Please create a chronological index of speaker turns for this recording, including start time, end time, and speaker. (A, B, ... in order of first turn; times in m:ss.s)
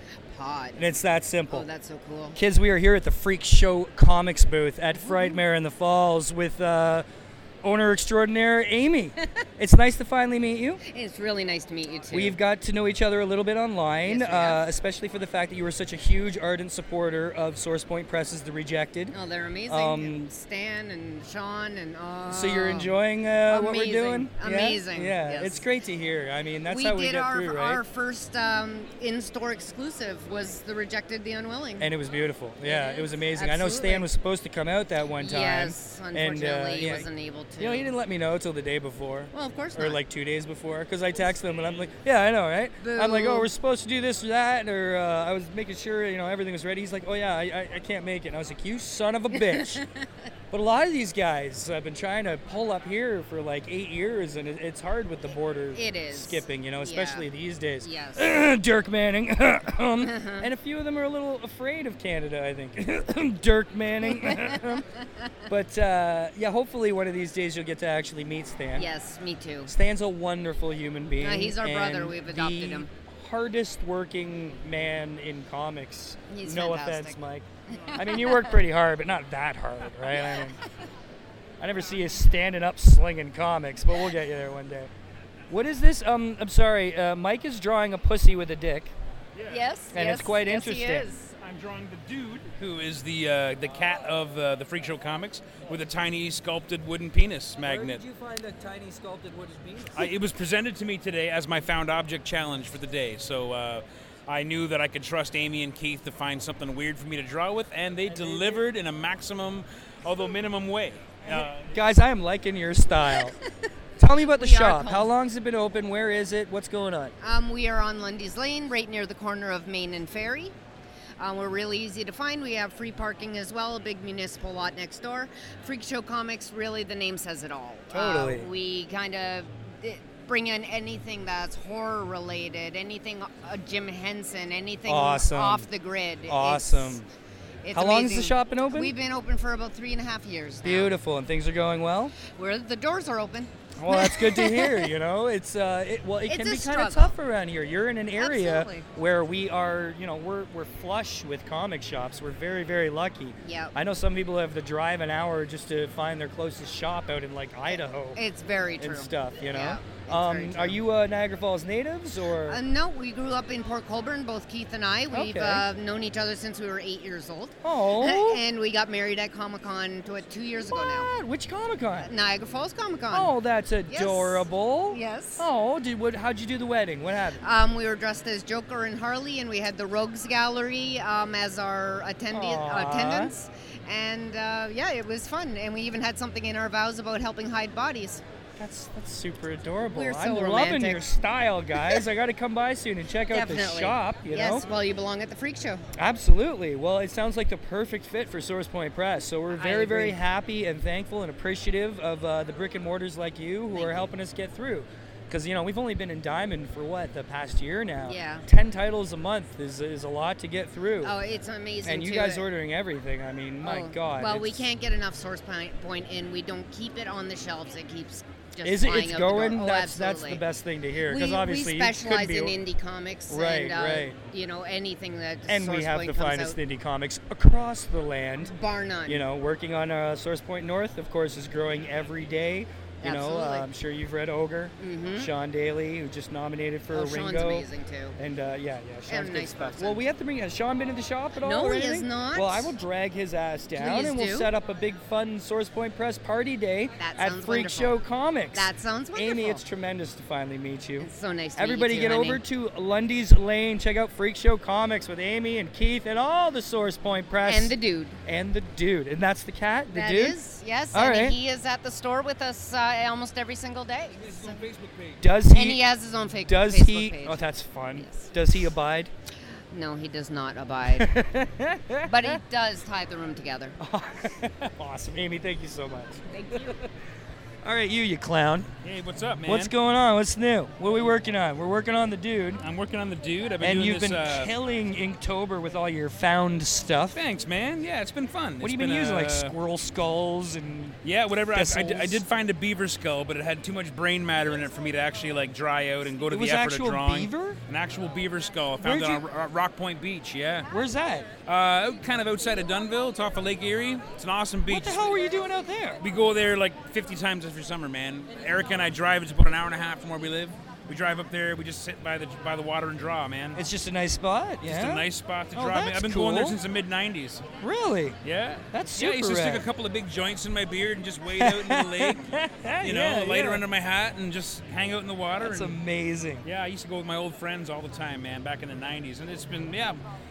0:00.3-0:00.9 A
0:00.8-0:01.7 B
0:01.5-0:02.4 A
0:02.3-0:07.0 B
0:05.0-0:05.4 A
0:07.6-0:10.8 B
0:10.8-0:12.4 A
0:12.1-0:19.1 B
0:14.0-0:14.7 A
0:19.1-0:25.6 A
0:19.7-0:20.3 B
0:22.3-0:27.8 B
0:26.7-0:31.9 A
0:31.8-0:37.1 B
0:32.6-0:34.1 A
0:35.2-0:37.9 A
0:37.6-0:49.8 B
0:39.3-0:40.0 A
0:42.8-0:43.5 A
0:49.3-0:50.1 A
0:50.5-1:04.8 B
0:55.7-0:57.2 A
0:57.8-0:58.4 A
1:00.0-1:00.5 A
1:04.1-1:05.3 A
1:05.5-1:08.9 B
1:08.7-1:09.7 A
1:09.7-1:20.6 B
1:11.2-1:12.9 A
1:16.3-1:17.2 A
1:17.7-1:18.6 A
1:20.1-1:20.8 A
1:21.6-1:24.9 B
1:25.5-1:28.9 B
1:29.4-1:29.6 C
1:29.5-1:31.3 A
1:29.9-1:31.1 B
1:31.2-1:38.0 C
1:37.6-1:40.1 B
1:39.9-1:51.8 C
1:48.1-1:48.6 B
1:51.3-1:53.4 B
1:53.1-1:53.5 A
1:54.0-1:57.1 B
1:54.0-1:55.1 A
1:57.2-2:00.5 A
2:01.2-2:17.0 A
2:07.9-2:08.5 B
2:14.8-2:15.7 B
2:16.2-2:17.0 B
2:17.6-2:20.9 A
2:17.7-2:18.9 B
2:20.6-2:22.2 B
2:22.2-2:24.9 A
2:23.8-2:38.2 B
2:26.3-2:27.2 A
2:28.2-2:28.8 A
2:33.4-2:33.7 A
2:37.7-2:40.8 A
2:38.8-2:42.6 B
2:42.5-2:51.1 A
2:45.1-2:45.6 B
2:47.6-2:48.4 B
2:50.7-2:52.1 B
2:52.0-2:53.3 A
2:53.1-2:57.4 B
2:53.9-2:55.5 A
2:57.4-3:08.2 A
3:02.3-3:03.3 B
3:08.6-3:14.7 B
3:09.8-3:11.1 A
3:11.8-3:12.0 A
3:13.3-3:15.8 A
3:16.0-3:31.2 B
3:19.5-3:20.2 A
3:23.7-3:24.1 A
3:28.0-3:28.4 A
3:31.0-3:32.4 A
3:31.8-3:34.7 B
3:33.6-3:40.4 A
3:38.6-3:42.6 B
3:41.1-3:46.6 A
3:43.3-3:44.2 B
3:45.5-3:48.5 B
3:48.4-3:49.2 A
3:49.0-4:20.4 B
3:53.0-3:53.7 A
3:54.8-3:55.3 A
3:56.9-3:58.2 A
3:59.1-4:00.0 A
4:01.4-4:02.7 A
4:03.7-4:04.5 A
4:07.0-4:08.0 A
4:08.5-4:09.6 A
4:11.0-4:12.4 A
4:17.4-4:18.2 A
4:19.9-4:24.6 A
4:20.9-4:21.4 B
4:24.2-4:25.2 C
4:25.2-4:25.8 B
4:25.4-4:28.3 A
4:26.4-4:29.1 B
4:29.7-4:31.1 A
4:30.9-4:32.4 B
4:32.0-4:33.8 A
4:33.8-4:36.9 B
4:36.3-4:36.7 A
4:37.6-4:38.7 B
4:38.8-4:39.7 C
4:39.4-4:42.6 B
4:42.6-4:44.5 C
4:43.6-4:47.2 B
4:47.1-4:49.5 C
4:48.6-4:51.0 B
4:51.0-5:00.7 C
4:51.5-4:52.2 B
4:56.3-4:57.6 B
4:58.8-4:59.2 B
5:00.7-5:01.3 B
5:01.4-5:05.0 C
5:04.6-5:06.0 B
5:06.0-5:13.6 C
5:13.5-5:16.6 B
5:14.6-5:17.4 C
5:17.6-5:18.2 B
5:18.2-5:25.8 C
5:18.7-5:19.6 B
5:21.4-5:23.6 B
5:25.4-5:26.4 B
5:26.4-5:30.0 C